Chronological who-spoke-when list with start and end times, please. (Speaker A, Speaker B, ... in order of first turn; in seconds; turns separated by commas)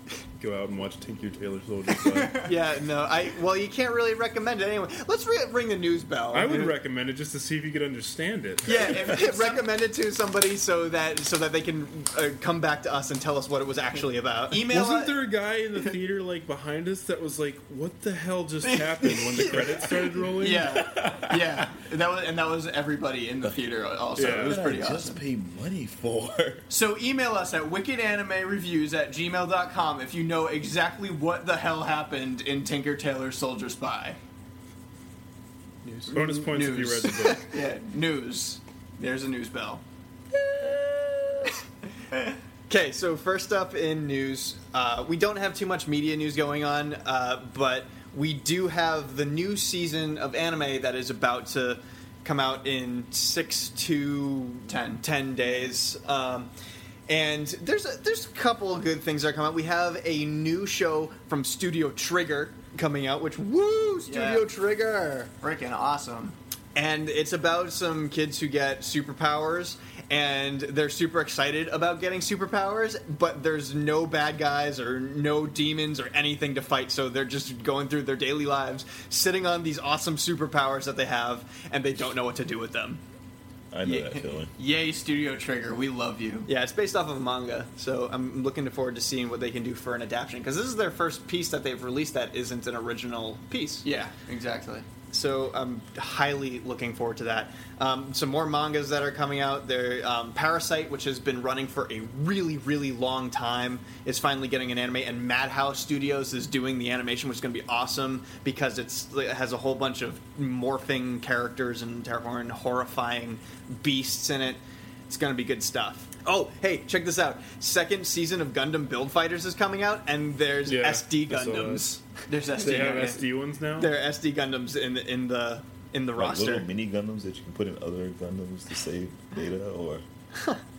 Speaker A: 0.4-2.4, Speaker B: 2.0-2.5, Speaker C: 2.4-6.7, Speaker A: 6.3-8.9, Speaker C: 8.7-14.6, Speaker B: 8.7-9.7, Speaker B: 14.5-15.2, Speaker A: 14.7-20.9, Speaker B: 18.7-19.7, Speaker B: 20.3-25.2, Speaker D: 21.0-21.5, Speaker D: 24.1-26.7, Speaker A: 24.2-24.6, Speaker B: 26.7-34.2, Speaker C: 35.8-36.2, Speaker A: 36.1-37.5, Speaker B: 36.1-39.8, Speaker C: 42.7-56.5, Speaker B: 54.7-55.7, Speaker C: 57.1-65.3, Speaker B: 64.1-64.5, Speaker B: 65.4-66.3, Speaker C: 66.7-83.0, Speaker D: 83.7-84.5, Speaker B: 83.8-86.5, Speaker C: 86.5-93.8, Speaker B: 93.8-94.8, Speaker C: 95.1-122.1, Speaker A: 120.7-122.0, Speaker B: 122.3-123.2, Speaker A: 122.5-123.9, Speaker C: 122.6-123.2, Speaker C: 123.8-126.7, Speaker D: 126.2-130.0